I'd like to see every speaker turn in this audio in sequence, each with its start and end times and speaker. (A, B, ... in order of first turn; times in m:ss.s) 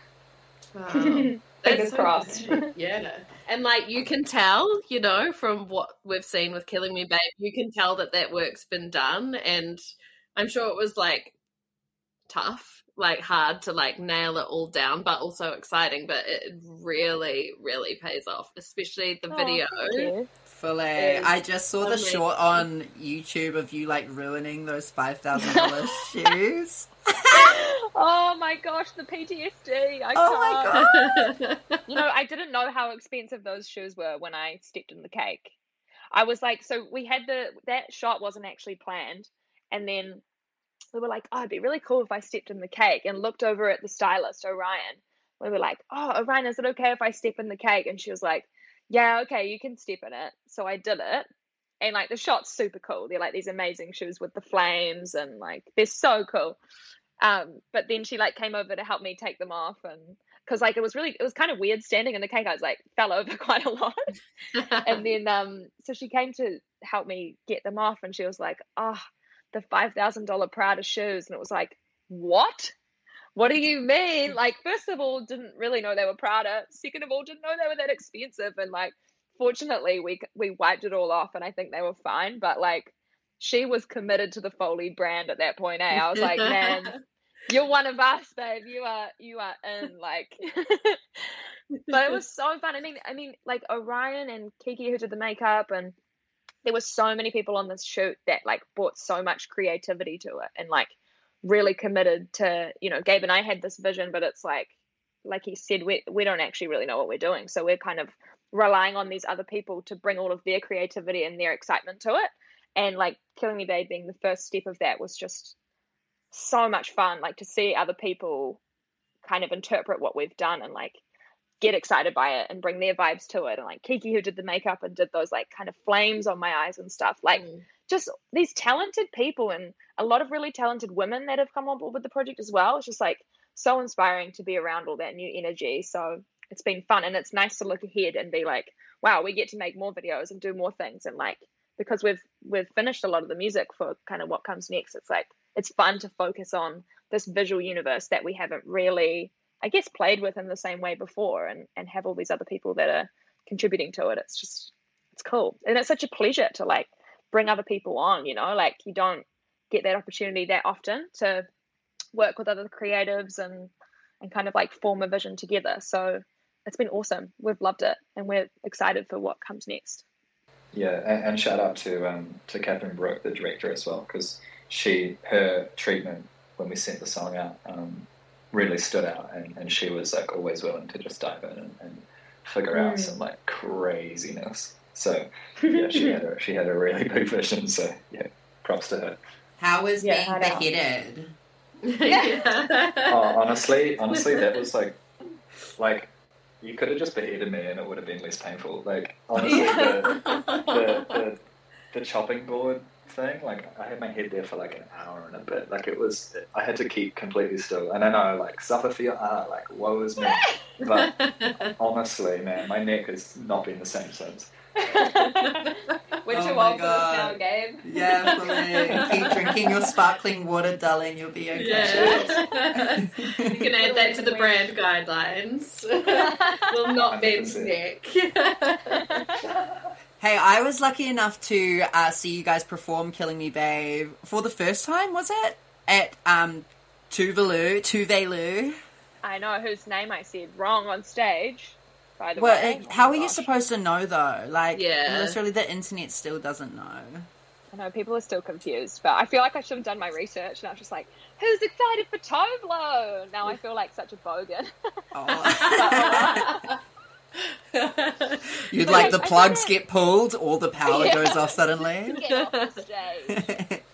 0:00.7-0:09.8 A
0:00.9-0:02.6 B
0:10.4-0:11.3 A
0:12.3-0:20.1 A
0:19.3-0:20.3 B
0:20.5-0:27.5 C
0:21.0-0:21.3 A
0:21.8-0:22.6 A
0:27.3-0:31.0 B
0:30.1-0:30.9 C
0:30.8-0:31.8 A
0:31.9-0:35.5 B
0:36.1-0:40.2 B
0:40.9-0:51.3 B
0:51.8-0:56.6 B
0:57.2-1:04.1 B
1:04.5-1:05.0 A
1:04.8-1:09.0 B
1:09.5-1:12.7 B
1:13.4-1:27.0 B
1:25.9-1:26.9 A
1:27.5-1:31.3 B
1:31.9-1:35.9 B
1:36.6-1:44.7 B
1:45.2-1:55.6 B
1:56.3-1:58.6 B
1:59.2-2:01.0 B
2:01.6-2:41.4 B
2:07.3-2:07.6 A
2:42.1-2:50.0 B
2:50.7-3:09.2 D
3:02.7-3:03.2 B
3:05.6-3:06.2 B
3:09.6-3:11.3 C
3:10.0-3:10.6 B
3:11.8-3:13.4 A
3:12.0-3:12.5 B
3:13.1-3:15.0 D
3:14.1-3:14.6 A
3:15.8-3:16.1 D
3:16.6-3:21.4 D
3:19.4-3:21.2 A
3:19.4-3:20.0 B
3:21.9-3:31.1 D
3:30.2-3:30.5 B
3:30.8-3:31.7 A
3:31.7-3:34.5 D
3:34.8-3:37.8 B
3:35.2-3:35.7 A
3:36.3-3:42.2 C
3:38.4-3:39.5 A
3:38.9-3:39.3 B
3:41.6-3:49.2 A
3:41.8-3:42.4 D
3:41.9-3:42.3 B
3:42.8-3:43.5 C
3:43.5-3:44.7 B
3:46.1-3:46.8 B
3:47.0-3:47.8 D
3:48.9-3:49.4 B
3:50.2-3:58.8 C
3:59.2-4:03.5 B
4:02.4-4:07.3 C
4:04.7-4:05.4 A
4:07.7-4:14.7 B
4:15.1-4:16.4 C
4:15.4-4:16.6 B
4:15.4-4:16.7 A
4:17.4-4:19.2 A
4:18.7-4:22.2 C
4:18.8-4:19.8 B
4:20.9-4:21.5 B
4:22.1-4:23.4 B
4:22.2-4:22.7 A
4:23.3-4:23.8 C